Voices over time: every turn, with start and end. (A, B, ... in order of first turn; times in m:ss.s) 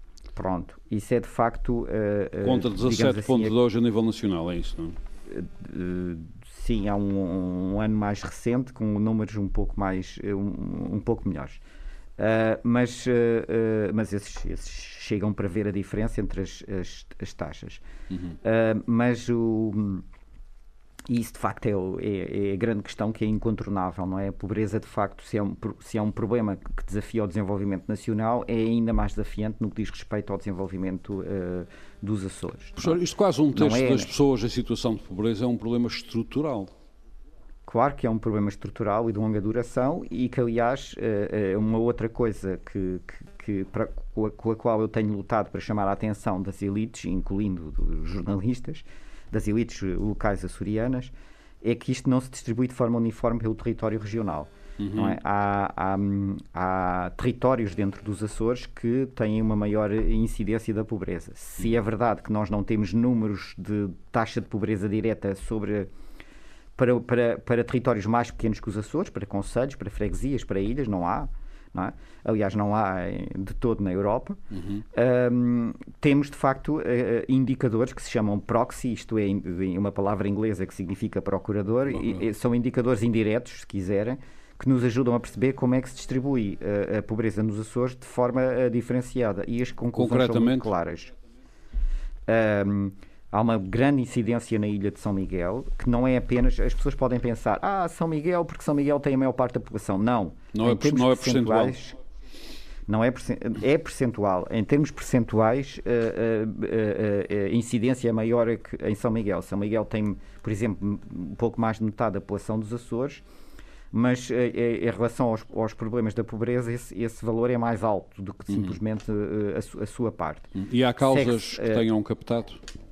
0:00.3-0:03.6 A
0:02.4-0:05.0 B
0:05.3-0:11.6 A
0:12.2-0:17.8 A
0:18.4-0:20.0 A
0:21.1-0:33.0 A
0:32.8-0:36.7 B
0:33.5-0:34.1 A
0:37.6-1:05.9 A
0:54.8-0:55.2 B
1:06.8-1:14.4 A
1:14.5-1:14.8 B
1:14.9-1:31.1 A
1:29.9-1:30.7 B
1:32.3-1:42.0 A
1:40.5-1:41.7 B
1:42.9-1:53.2 A
1:53.9-2:00.5 A
1:58.5-1:58.8 B
2:00.6-2:02.6 B
2:01.0-2:01.8 A